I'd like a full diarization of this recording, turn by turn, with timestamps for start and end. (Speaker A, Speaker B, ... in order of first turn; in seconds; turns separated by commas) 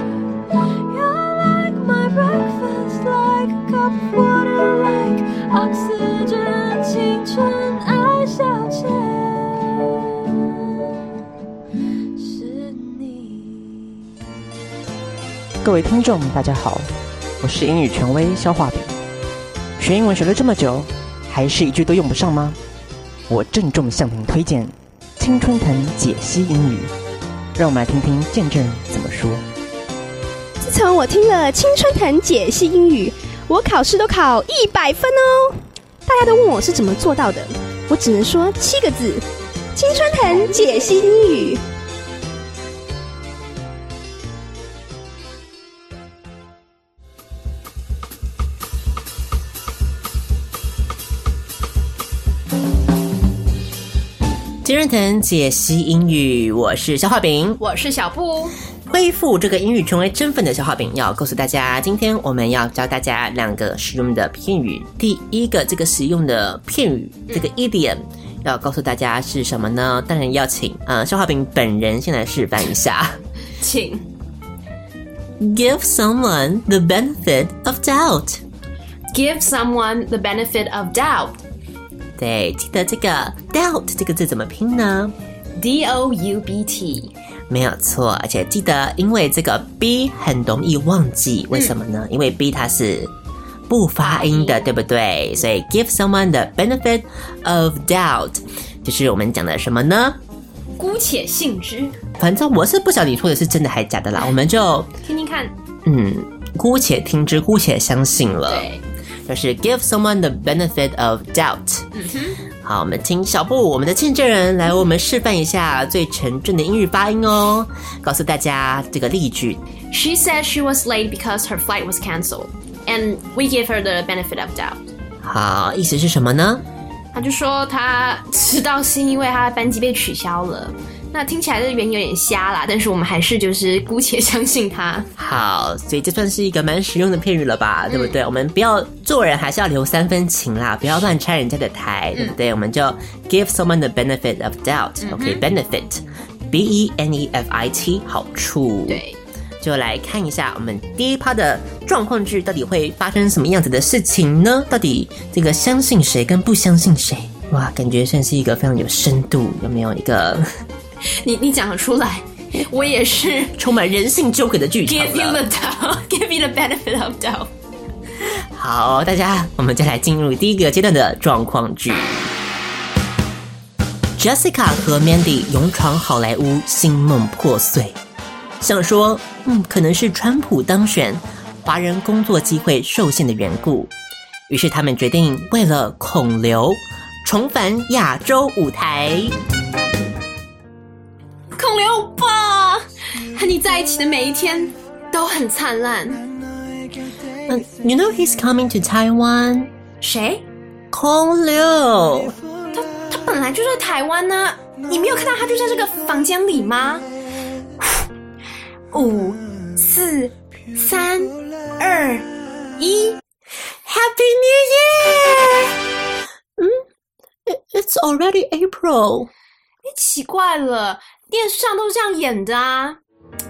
Speaker A: 1.0-1.4, Speaker A: 2.6-3.4, Speaker A: 4.4-8.5, Speaker A: 12.2-13.1, Speaker B: 15.6-18.9, Speaker B: 19.8-22.6, Speaker B: 23.3-26.9, Speaker B: 27.6-29.4, Speaker C: 30.6-39.2, Speaker C: 39.8-41.6, Speaker D: 40.2-41.0, Speaker E: 54.6-57.6, Speaker D: 57.6-58.5, Speaker E: 58.9-73.2, Speaker D: 73.6-74.1, Speaker E: 75.4-78.4, Speaker D: 79.1-81.4, Speaker E: 82.2-85.1, Speaker D: 85.6-87.1, Speaker E: 87.5-93.1, Speaker E: 93.7-100.2, Speaker D: 94.0-94.7, Speaker D: 100.8-101.9, Speaker E: 102.2-104.9, Speaker D: 105.0-105.5, Speaker E: 105.8-108.7, Speaker D: 108.5-108.8, Speaker E: 109.3-111.9, Speaker D: 111.9-112.4, Speaker E: 112.6-119.6, Speaker D: 119.9-124.8, Speaker E: 125.2-126.6, Speaker D: 127.1-135.1, Speaker E: 135.2-149.0, Speaker D: 137.9-138.2, Speaker D: 145.0-145.4, Speaker D: 148.9-149.2, Speaker E: 149.6-160.5, Speaker D: 161.2-163.5, Speaker E: 163.6-165.4, Speaker D: 164.8-167.5, Speaker E: 168.5-172.3, Speaker E: 174.2-178.0, Speaker E: 178.6-183.9, Speaker E: 184.5-189.3, Speaker D: 191.5-196.2, Speaker E: 197.5-199.7, Speaker D: 200.0-200.4, Speaker E: 200.9-202.3, Speaker D: 202.7-207.1, Speaker D: 208.9-213.2, Speaker E: 213.9-215.1, Speaker E: 217.5-219.3, Speaker D: 219.8-223.0